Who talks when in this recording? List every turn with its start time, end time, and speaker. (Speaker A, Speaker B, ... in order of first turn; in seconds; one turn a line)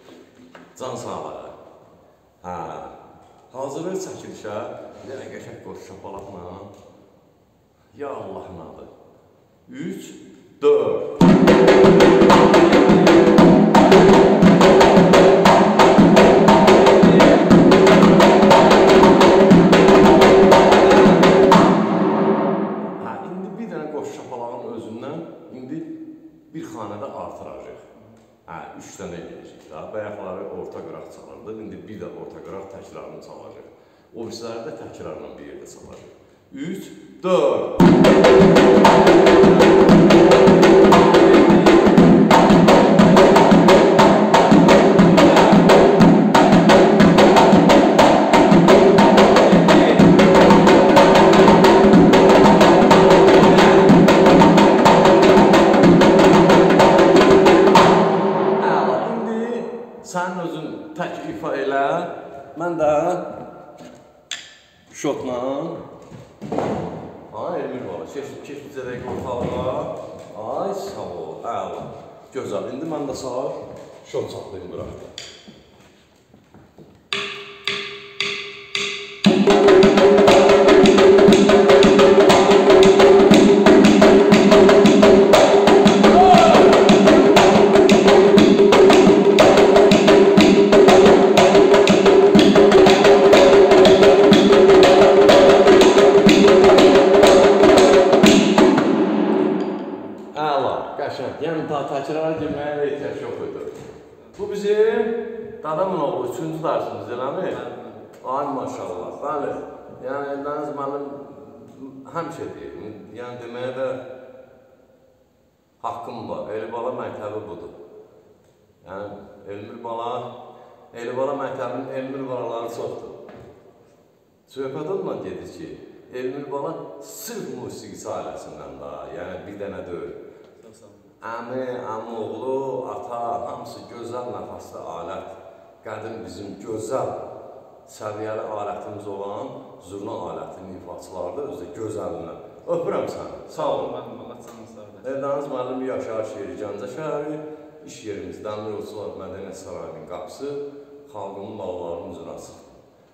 Speaker A: 0.8-1.6
Speaker A: 2.4-3.0
Speaker A: 3.5-6.7
Speaker A: 7.9-8.9
Speaker A: 9.7-11.2
Speaker A: 23.0-25.9
Speaker A: 26.5-27.9
Speaker A: 28.5-37.9
Speaker A: 58.6-63.3
Speaker A: 64.9-65.8
Speaker A: 67.3-75.1
Speaker A: 100.3-103.7
Speaker A: 104.3-107.6
Speaker B: 107.5-108.1
Speaker A: 108.2-114.0
Speaker A: 115.8-117.7
Speaker A: 118.8-120.3
Speaker A: 120.9-123.2
Speaker A: 124.5-130.2
Speaker B: 130.6-131.1
Speaker A: 131.2-137.2
Speaker A: 137.8-143.9
Speaker B: 143.5-145.1
Speaker A: 145.0-152.6